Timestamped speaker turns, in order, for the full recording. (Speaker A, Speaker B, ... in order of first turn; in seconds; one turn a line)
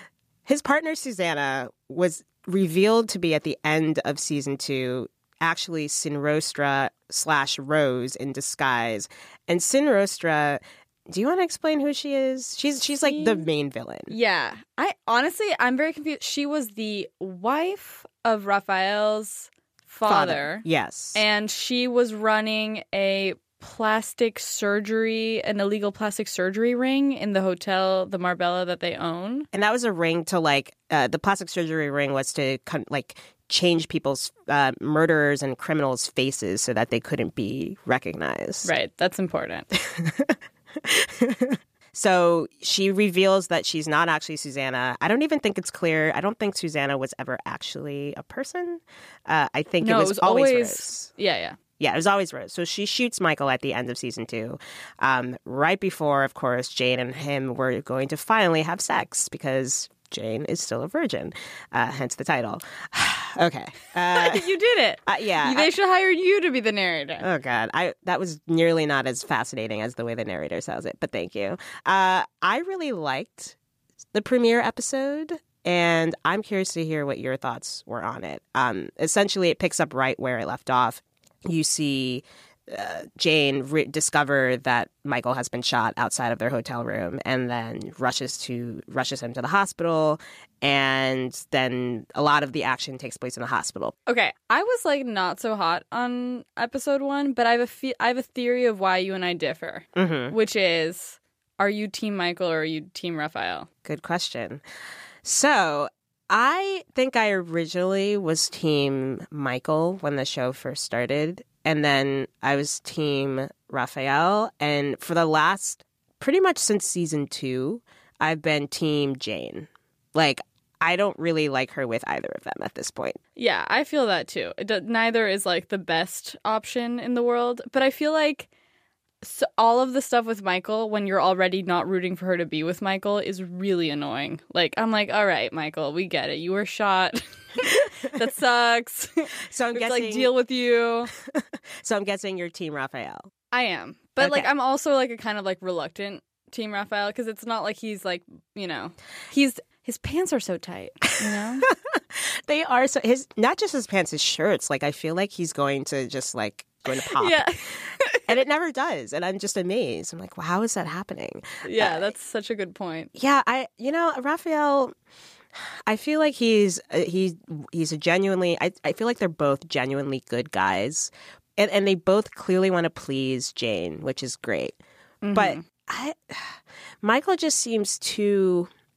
Speaker A: 0.5-14.1
Speaker B: 13.0-13.4
Speaker B: 14.1-29.5
Speaker A: 20.1-21.2
Speaker A: 29.5-38.7
Speaker B: 38.6-39.7
Speaker A: 39.8-51.1
Speaker B: 49.8-51.6
Speaker A: 51.8-64.5
Speaker B: 64.1-67.2
Speaker A: 65.0-65.7
Speaker A: 67.2-73.5
Speaker A: 74.1-93.9
Speaker B: 94.1-103.7
Speaker A: 100.0-100.3
Speaker A: 103.8-104.6
Speaker A: 105.2-123.2
Speaker B: 123.3-128.5
Speaker B: 129.2-141.1
Speaker A: 139.5-140.3
Speaker A: 141.3-143.3
Speaker B: 143.5-151.7
Speaker A: 144.2-144.5
Speaker A: 151.3-157.7
Speaker B: 157.1-158.2
Speaker A: 158.2-162.1
Speaker B: 161.6-163.1
Speaker A: 163.1-164.9
Speaker A: 165.6-174.8
Speaker B: 175.2-175.6
Speaker A: 175.3-178.7